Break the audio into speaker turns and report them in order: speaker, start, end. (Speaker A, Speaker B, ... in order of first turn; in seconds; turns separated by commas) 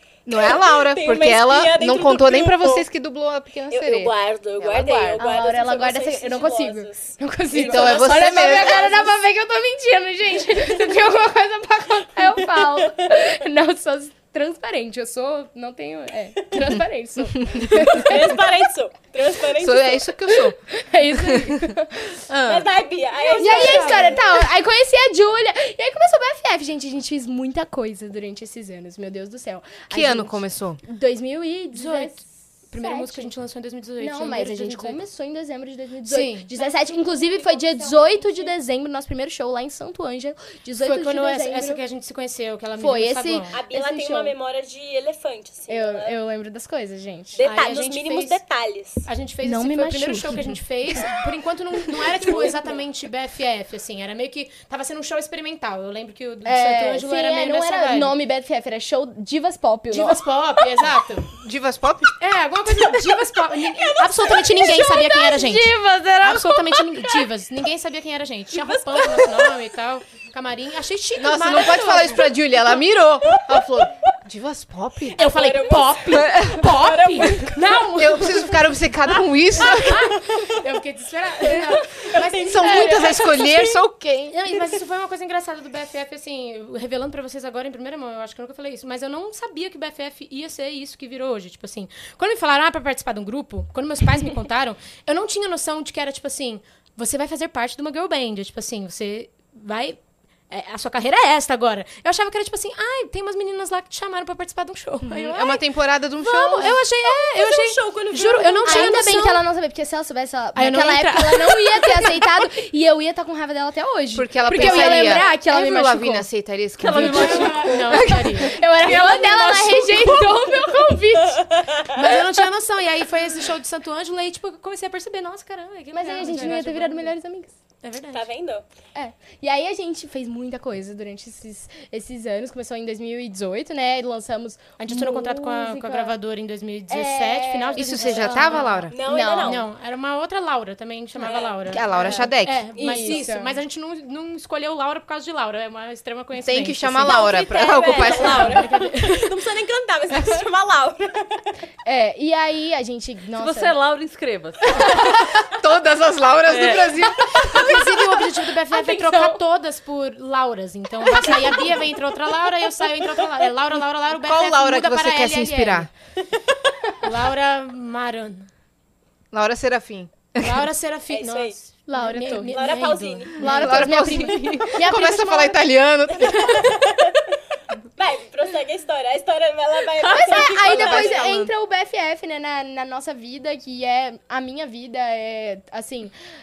Speaker A: 0.2-5.2, Speaker B: 0.3-2.9, Speaker B: 3.7-9.1, Speaker C: 5.2-18.4, Speaker A: 7.5-9.1, Speaker B: 12.6-13.1, Speaker A: 17.4-17.7, Speaker B: 17.9-20.2, Speaker A: 19.5-20.6, Speaker C: 20.7-22.2, Speaker A: 21.1-21.7, Speaker A: 22.3-22.7, Speaker B: 22.4-24.2, Speaker D: 23.3-24.2, Speaker C: 23.4-33.3, Speaker A: 29.9-30.8, Speaker D: 31.7-35.0, Speaker C: 34.0-41.8, Speaker D: 36.0-36.5, Speaker B: 36.6-38.5, Speaker D: 40.8-43.6, Speaker C: 42.8-44.3, Speaker B: 43.5-46.1, Speaker C: 45.7-47.5, Speaker B: 47.4-49.1, Speaker D: 47.4-48.4, Speaker D: 49.0-58.1, Speaker C: 49.4-51.0, Speaker B: 52.3-52.7, Speaker C: 56.4-60.2, Speaker D: 59.9-61.4, Speaker A: 61.4-62.1, Speaker D: 62.2-72.3, Speaker B: 63.7-64.7, Speaker C: 64.6-66.8, Speaker B: 68.9-69.5, Speaker A: 71.2-75.2, Speaker B: 73.3-73.6, Speaker B: 75.2-77.7, Speaker D: 75.2-78.6, Speaker A: 76.1-76.6, Speaker A: 78.0-80.2, Speaker D: 79.2-83.4, Speaker B: 79.6-80.6, Speaker B: 81.4-83.8, Speaker A: 82.4-84.4, Speaker D: 84.3-105.6, Speaker A: 105.0-106.8, Speaker D: 106.2-109.4, Speaker B: 107.0-109.1, Speaker C: 108.6-116.3, Speaker D: 110.5-112.2, Speaker A: 114.1-118.2, Speaker D: 114.5-115.2, Speaker D: 116.8-120.5, Speaker E: 116.8-117.9, Speaker C: 117.0-121.6, Speaker B: 121.5-121.8, Speaker D: 121.9-127.1, Speaker C: 125.9-127.5, Speaker D: 127.8-128.3, Speaker B: 128.1-128.6, Speaker C: 128.9-136.1, Speaker D: 134.8-149.4, Speaker C: 136.9-139.6, Speaker A: 137.8-138.9, Speaker B: 138.9-139.7, Speaker B: 141.2-141.8, Speaker A: 141.6-142.7, Speaker C: 141.9-143.6, Speaker B: 142.7-143.3, Speaker A: 146.4-148.6, Speaker B: 147.0-151.4, Speaker C: 151.8-153.7, Speaker E: 153.4-155.1, Speaker A: 154.8-158.0, Speaker E: 156.5-156.9, Speaker D: 157.3-165.9, Speaker C: 158.7-159.4, Speaker C: 161.3-161.6, Speaker A: 164.2-165.9, Speaker D: 167.0-168.5, Speaker A: 169.3-170.7, Speaker D: 170.4-175.1, Speaker B: 171.1-171.6, Speaker C: 171.9-172.8, Speaker B: 172.5-173.8, Speaker C: 173.4-175.6, Speaker A: 173.4-176.8, Speaker B: 176.2-177.3, Speaker B: 178.0-181.2, Speaker C: 180.0-186.1, Speaker A: 180.1-181.5